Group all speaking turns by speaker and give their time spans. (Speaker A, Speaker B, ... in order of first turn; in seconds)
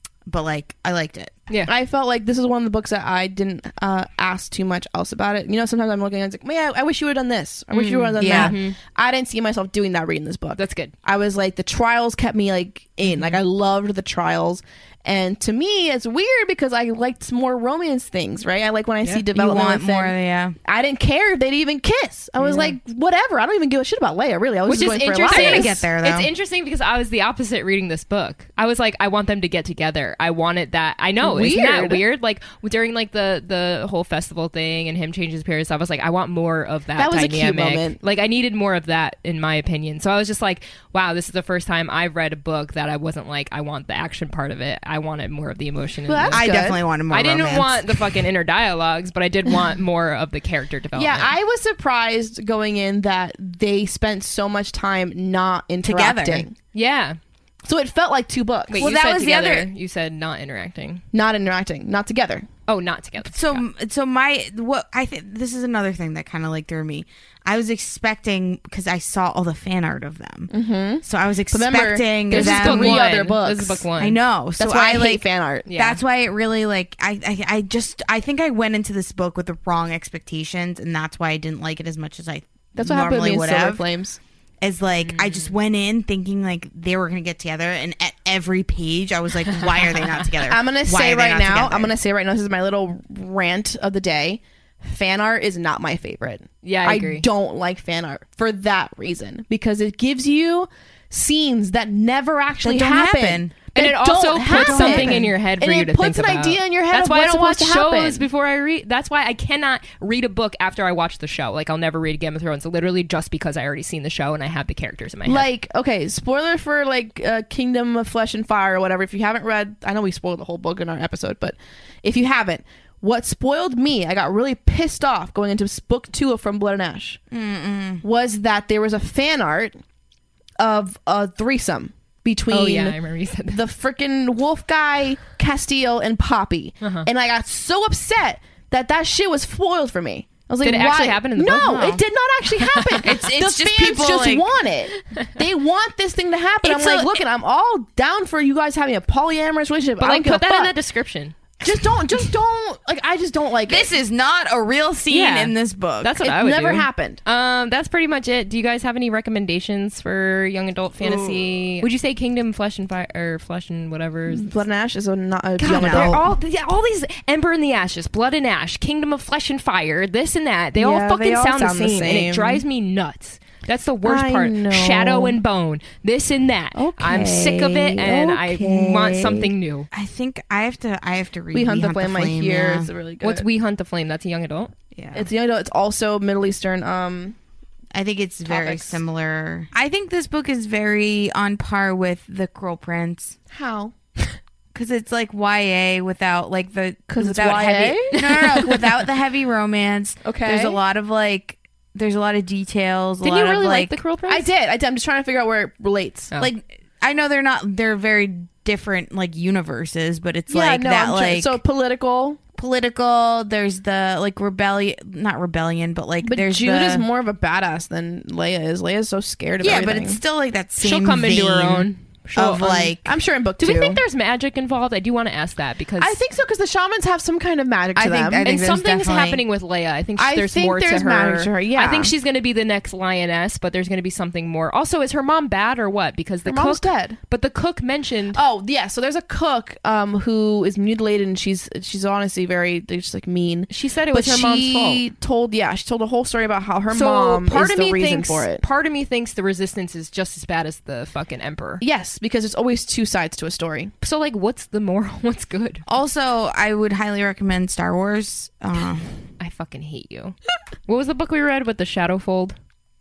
Speaker A: 0.3-1.4, 8.2-8.6, 19.3-20.6, 25.3-26.3, 46.3-48.2, 55.8-56.5, 58.8-59.7, 63.3-70.5, 71.0-73.1, 74.0-83.8, 84.6-91.9, 102.6-103.6, 104.5-105.3, 127.3-128.0, 141.6-142.0, 143.1-144.5, 146.6-147.2, 153.7-156.2, 161.0-161.8, 165.6-166.2, 179.9-182.9, 184.9-185.3, 187.9-193.4, 194.7-204.0, 206.4-211.6, 212.6-217.1, 219.6-223.2, 228.0-229.4, 255.9-259.1
Speaker B: 1.7-25.8, 31.2-32.0, 37.0-38.0, 46.1-46.8, 51.0-56.5, 57.7-58.9, 61.1-62.5, 70.5-73.9, 74.6-75.7, 82.8-84.2, 90.5-108.3, 115.2-127.2, 128.0-129.8, 130.6-133.0, 133.5-150.7, 151.6-153.9, 156.2-157.2, 164.3-166.3, 170.8-172.6, 174.0-175.4, 176.8-179.5, 181.5-183.5, 185.1-187.3, 193.5-193.9, 197.1-198.8, 200.2-200.8, 204.3-206.3, 210.5-212.4, 216.2-220.2, 223.1-224.0, 226.0-228.5, 230.2-232.1, 236.4-237.2, 238.3-248.6, 251.8-253.9
Speaker C: 7.7-8.8, 10.6-10.9, 13.1-13.4, 22.4-22.8, 24.7-46.5, 47.1-51.4, 56.7-57.2, 58.7-61.0, 62.7-63.6, 72.3-74.2, 75.7-76.0, 85.0-85.5, 89.9-90.2, 96.6-97.2, 103.7-115.5, 132.5-133.6, 136.8-137.1, 140.6-141.8, 142.6-143.1, 150.0-151.4, 155.1-164.5, 165.6-179.9, 183.2-184.7, 188.5-189.0, 198.3-198.6, 203.2-204.5, 220.8-222.9, 223.6-226.2, 228.4-238.4, 243.7-245.0, 246.9-251.8, 254.0-255.8, 259.4-260.4, 260.9-262.6